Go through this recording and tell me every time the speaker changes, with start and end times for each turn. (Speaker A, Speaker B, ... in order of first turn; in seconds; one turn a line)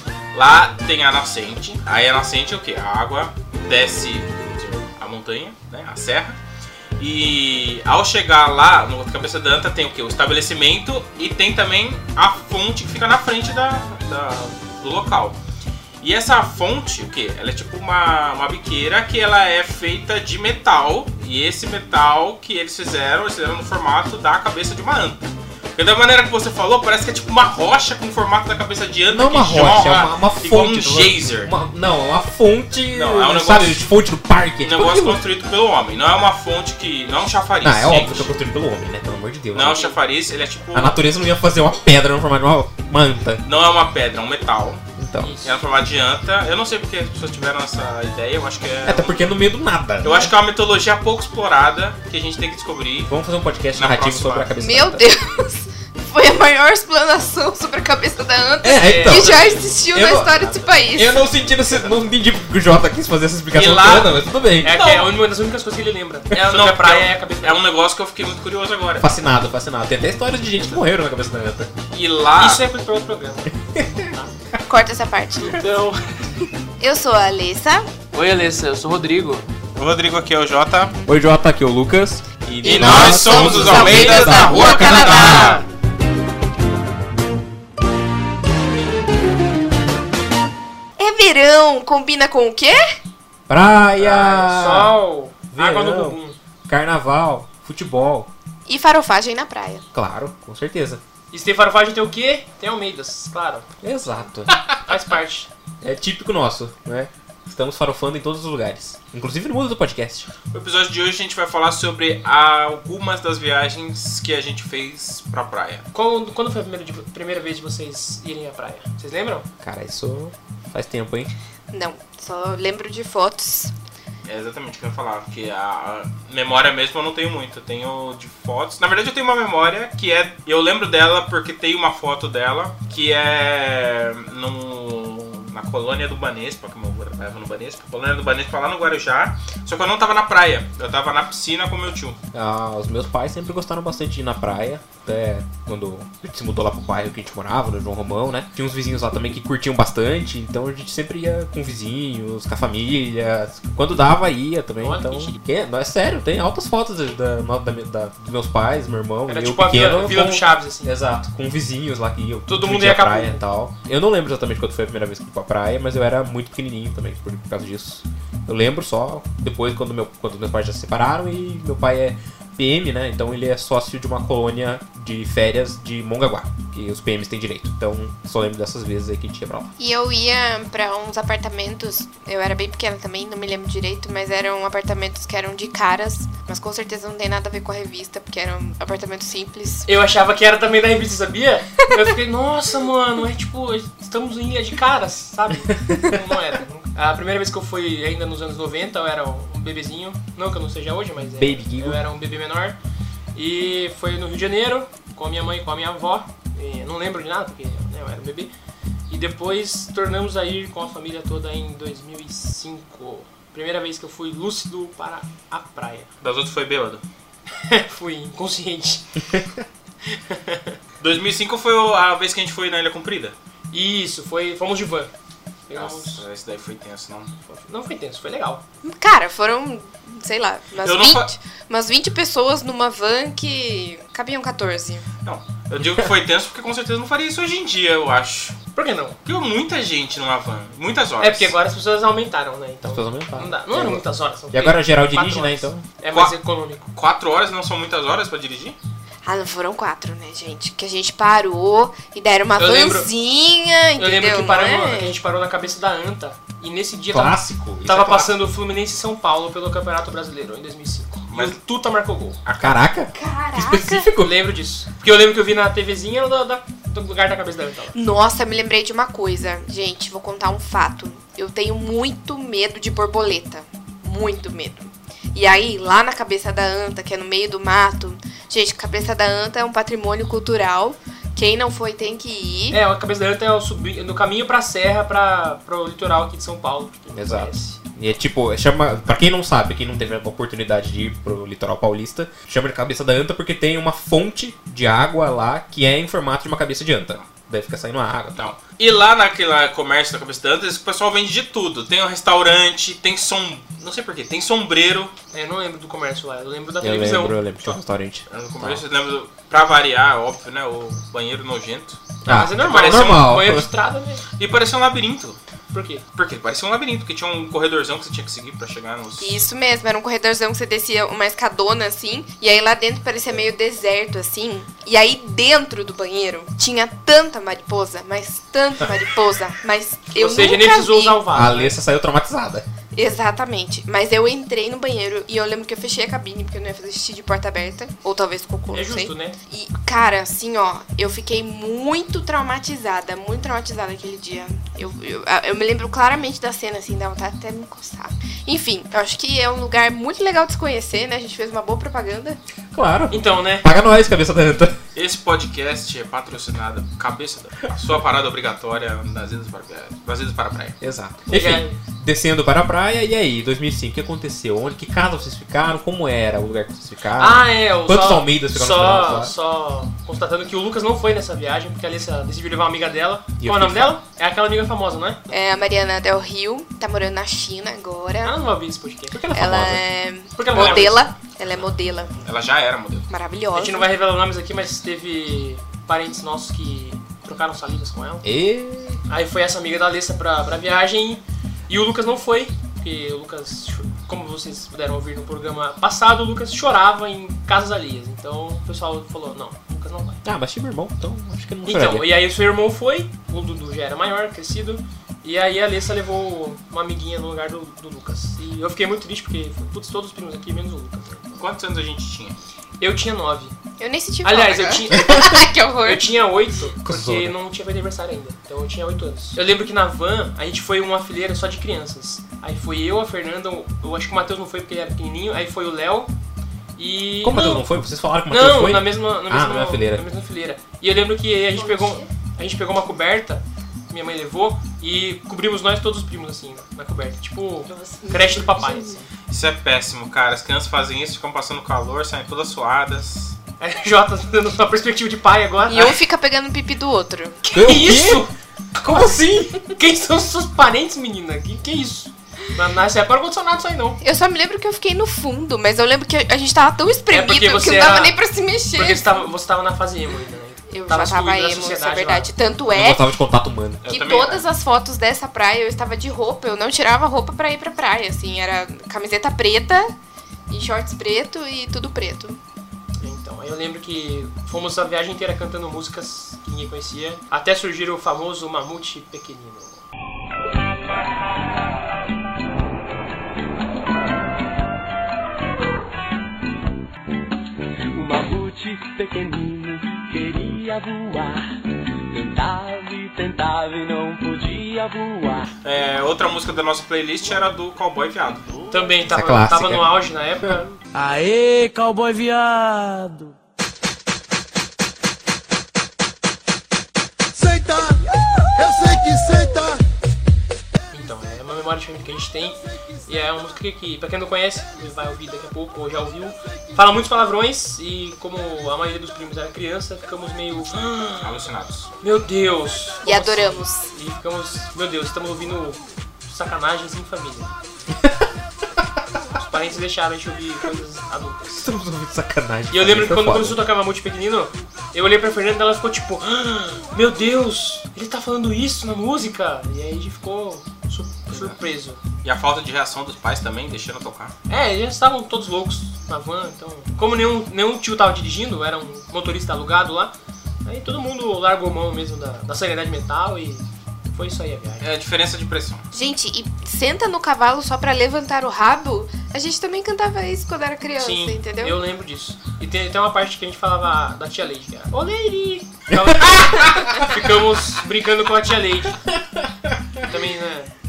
Speaker A: 0.3-6.4
Speaker A: 7.0-15.4
Speaker A: 16.0-31.5
Speaker B: 29.1-35.2
Speaker A: 32.9-33.9
Speaker A: 34.6-38.3
Speaker B: 37.6-39.9
Speaker A: 39.5-41.0
Speaker C: 39.7-39.9
Speaker B: 40.7-43.4
Speaker A: 43.5-44.8
Speaker B: 45.0-45.4
Speaker C: 45.2-45.6
Speaker A: 45.4-49.3
Speaker B: 48.9-50.2
Speaker A: 50.0-53.1
Speaker C: 50.0-50.3
Speaker B: 53.1-55.1
Speaker A: 53.8-54.5
Speaker D: 54.6-61.3
Speaker B: 58.6-64.8
Speaker C: 58.8-59.6
Speaker A: 63.5-65.1
Speaker C: 64.6-67.6
Speaker A: 66.4-69.2
Speaker B: 69.0-71.7
Speaker A: 71.9-72.6
Speaker C: 72.4-74.3
Speaker B: 73.7-74.1
Speaker D: 74.7-75.6
Speaker C: 75.4-76.0
Speaker D: 76.8-77.9
Speaker C: 78.1-79.5
Speaker A: 79.8-81.0
Speaker B: 81.1-85.6
Speaker A: 82.6-85.5
Speaker C: 82.7-85.6
Speaker D: 82.7-85.6
Speaker D: 91.0-92.8
Speaker B: 93.5-95.0
Speaker C: 94.0-96.4
Speaker B: 95.5-98.3
Speaker D: 98.7-99.8
Speaker B: 99.9-101.0
Speaker C: 101.3-103.7
Speaker B: 103.8-104.6
Speaker C: 104.9-105.5
Speaker B: 105.8-110.3
Speaker A: 110.5-115.9
Speaker C: 115.9-119.5
Speaker B: 119.6-121.3
Speaker D: 121.7-123.7
Speaker A: 124.2-142.2
Speaker B: 142.3-179.7
Speaker C: 154.8-155.4
Speaker C: 159.3-160.9
Speaker C: 162.5-163.4
Speaker D: 179.8-189.9
Speaker C: 189.9-202.8
Speaker B: 201.3-202.0
Speaker C: 203.3-208.5
Speaker C: 209.1-216.1
Speaker A: 216.2-217.0
Speaker C: 217.6-219.2
Speaker C: 220.1-220.8
Speaker A: 221.0-223.3
Speaker C: 223.7-225.1
Speaker C: 225.7-226.2
Speaker A: 225.7-227.3
Speaker C: 227.5-228.6
Speaker D: 228.8-235.1
Speaker A: 230.8-231.3
Speaker A: 235.2-238.6
Speaker B: 235.8-236.0
Speaker C: 238.8-239.2
Speaker A: 239.2-241.5
Speaker C: 241.2-246.9
Speaker B: 242.8-245.8
Speaker A: 246.9-248.8
Speaker D: 249.2-255.1
Speaker C: 252.6-253.1
Speaker C: 254.0-262.4
Speaker B: 257.1-258.3
Speaker A: 261.3-261.6
Speaker A: 262.5-262.8
Speaker B: 262.6-264.4
Speaker D: 263.1-264.1
Speaker C: 264.2-267.9
Speaker D: 267.9-282.8
Speaker C: 282.7-287.8
Speaker B: 287.1-298.4
Speaker A: 298.4-305.1
Speaker C: 305.3-307.8
Speaker B: 306.8-308.8
Speaker A: 308.3-312.0
Speaker B: 312.2-313.7
Speaker C: 312.3-314.2
Speaker A: 312.6-313.2
Speaker A: 314.4-315.4
Speaker C: 315.7-316.1
Speaker A: 316.1-319.4
Speaker D: 319.2-331.2
Speaker C: 330.1-331.8
Speaker B: 331.3-332.7
Speaker D: 332.9-352.4
Speaker C: 338.7-339.4
Speaker B: 352.7-354.8
Speaker C: 353.1-353.7
Speaker A: 354.9-360.8
Speaker B: 360.8-369.3
Speaker C: 361.3-361.8
Speaker C: 367.2-375.3
Speaker B: 373.4-373.9
Speaker D: 375.3-378.4
Speaker C: 378.2-379.2
Speaker B: 379.1-379.9
Speaker D: 379.3-382.2
Speaker C: 380.4-381.1
Speaker A: 382.2-383.1
Speaker D: 383.1-383.9
Speaker C: 383.6-388.3
Speaker B: 388.2-389.0
Speaker C: 389.1-400.2
Speaker B: 400.2-402.1
Speaker C: 401.6-411.4
Speaker A: 411.4-412.4
Speaker C: 412.8-413.6
Speaker D: 413.8-416.2
Speaker C: 414.2-426.1
Speaker B: 416.8-417.4
Speaker C: 426.8-427.7
Speaker B: 427.2-430.0
Speaker C: 428.3-439.0
Speaker D: 431.5-432.1
Speaker D: 437.7-439.0
Speaker A: 439.3-443.4
Speaker C: 443.6-446.0
Speaker D: 445.7-447.4
Speaker C: 447.4-454.0
Speaker B: 447.5-448.3
Speaker B: 448.9-449.7
Speaker D: 454.0-459.1
Speaker C: 457.1-458.2
Speaker C: 458.7-462.3
Speaker D: 460.7-463.1
Speaker B: 462.7-464.0
Speaker A: 463.9-464.5
Speaker D: 463.9-469.9
Speaker D: 470.5-472.4
Speaker C: 473.0-479.8
Speaker E: 487.9-491.5
Speaker E: 492.1-495.5
Speaker A: 495.6-498.4
Speaker C: 498.7-500.7
Speaker B: 499.1-499.9
Speaker E: 500.9-503.4
Speaker F: 507.4-508.0
Speaker F: 508.6-509.8
Speaker C: 510.9-521.4
Speaker A: 521.2-521.9
Speaker C: 522.0-527.5
Speaker D: 523.0-523.9
Speaker C: 529.3-531.6
Speaker B: 531.5-533.6
Speaker C: 532.7-542.0
Speaker A: 541.3-541.6
Speaker A: 542.2-544.3
Speaker C: 544.5-550.1
Speaker C: 550.6-554.9
Speaker A: 554.8-555.9
Speaker D: 555.9-561.8
Speaker C: 561.0-569.0
Speaker B: 565.9-567.0
Speaker C: 570.0-570.7